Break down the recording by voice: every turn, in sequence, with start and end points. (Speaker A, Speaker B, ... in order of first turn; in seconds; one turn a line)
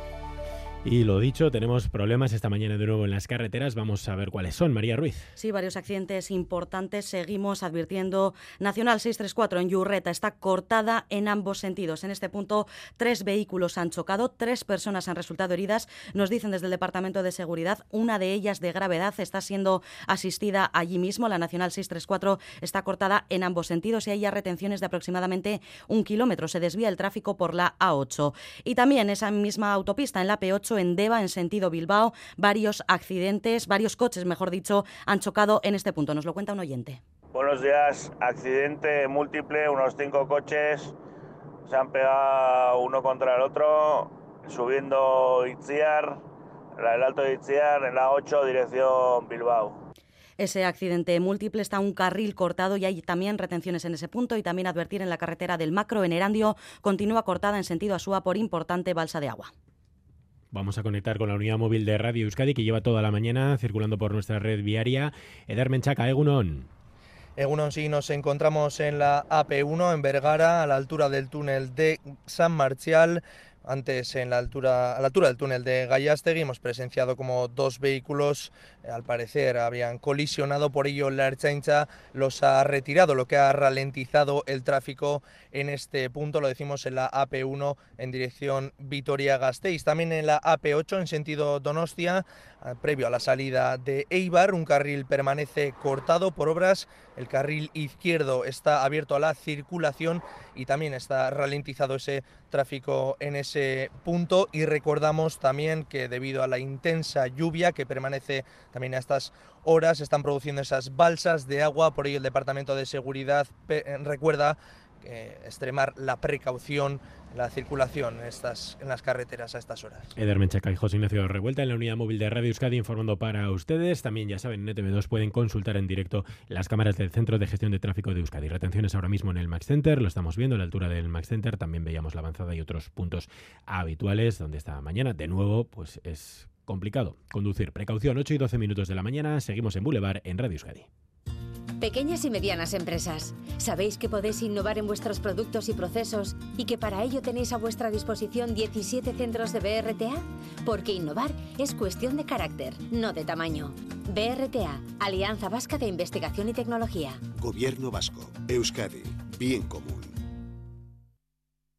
Speaker A: 0.8-5.3
Speaker B: 5.4-37.0
Speaker C: 37.4-40.9
Speaker C: 41.7-46.2
Speaker C: 46.8-49.8
Speaker B: 50.4-59.5
Speaker A: 60.5-66.7
Speaker D: 67.4-120.1
Speaker A: 120.2-140.9
Speaker E: 141.8-157.2
Speaker F: 157.4-160.1